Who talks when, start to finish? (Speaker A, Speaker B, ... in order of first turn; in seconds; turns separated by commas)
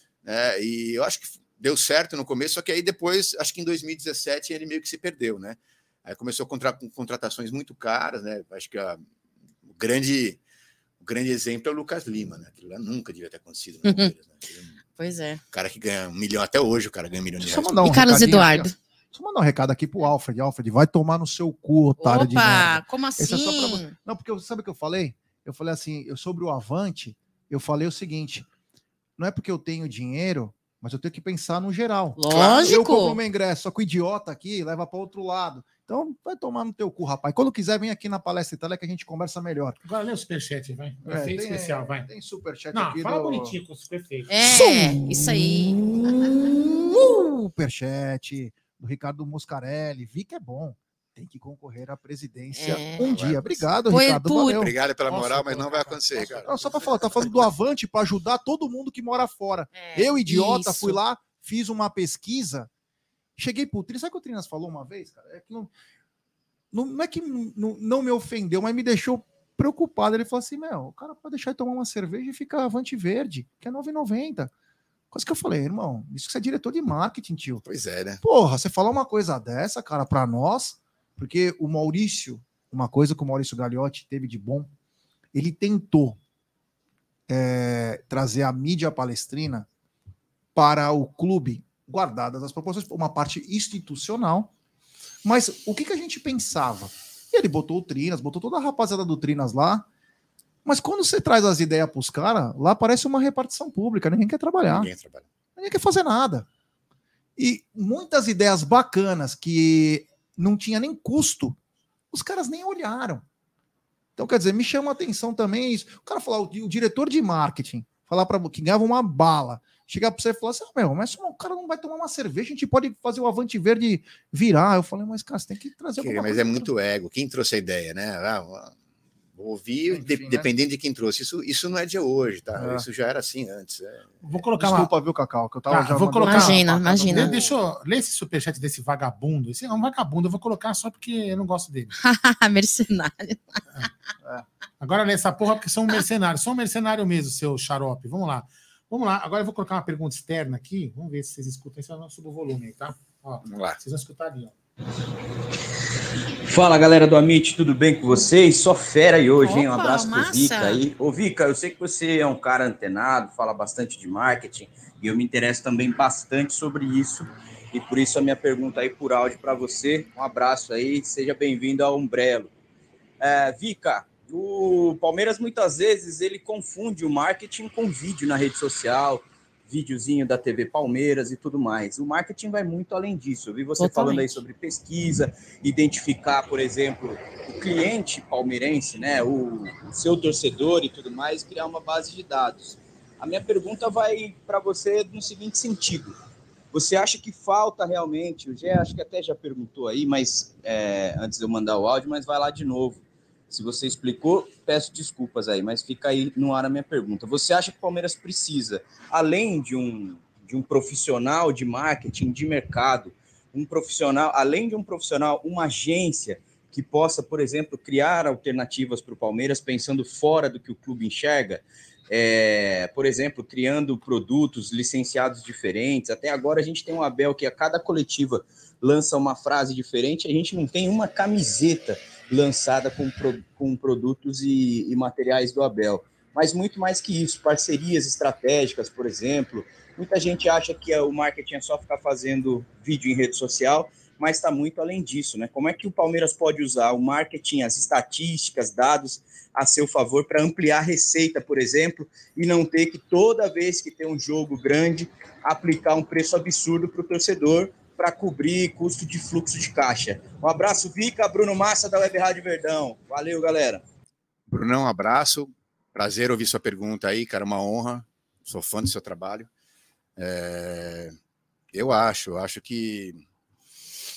Speaker A: 0.2-9.0, Speaker A: 9.7-10.4, Speaker A: 11.0-14.7, Speaker B: 13.8-14.1, Speaker B: 15.0-15.4, Speaker A: 15.5-17.9, Speaker C: 17.4-28.5, Speaker B: 17.8-18.7, Speaker B: 22.0-23.9, Speaker C: 29.2-39.8, Speaker B: 32.1-33.2, Speaker A: 32.3-32.6, Speaker D: 39.8-42.1, Speaker C: 41.0-43.6, Speaker D: 42.7-44.3, Speaker B: 44.3-46.3, Speaker C: 44.4-54.7, Speaker B: 52.5-54.7, Speaker A: 53.1-53.4, Speaker A: 54.5-57.5, Speaker D: 55.0-57.0, Speaker C: 56.4-62.7, Speaker B: 59.7-61.0, Speaker C: 63.4-65.7, Speaker C: 66.7-74.5, Speaker C: 75.1-77.6, Speaker A: 77.6-78.2, Speaker C: 78.2-84.7, Speaker C: 85.3-86.2, Speaker C: 87.3-89.7, Speaker C: 90.5-94.5, Speaker C: 95.2-99.9, Speaker C: 100.6-104.9, Speaker A: 104.7-105.2, Speaker C: 105.6-106.5, Speaker C: 107.4-111.6, Speaker C: 112.1-113.2, Speaker C: 114.2-126.7, Speaker A: 126.0-128.7, Speaker A: 129.3-134.2, Speaker C: 129.9-130.5, Speaker C: 132.6-132.9, Speaker D: 134.2-134.9, Speaker C: 134.6-137.6, Speaker D: 135.7-141.9, Speaker B: 136.2-137.4, Speaker B: 141.9-143.9, Speaker D: 144.8-154.5, Speaker A: 153.4-153.8, Speaker E: 156.4-172.5, Speaker B: 159.4-160.8, Speaker E: 173.2-196.2, Speaker B: 183.8-184.3, Speaker E: 196.7-263.8, Speaker A: 264.5-269.5, Speaker A: 270.2-271.1, Speaker A: 271.7-273.2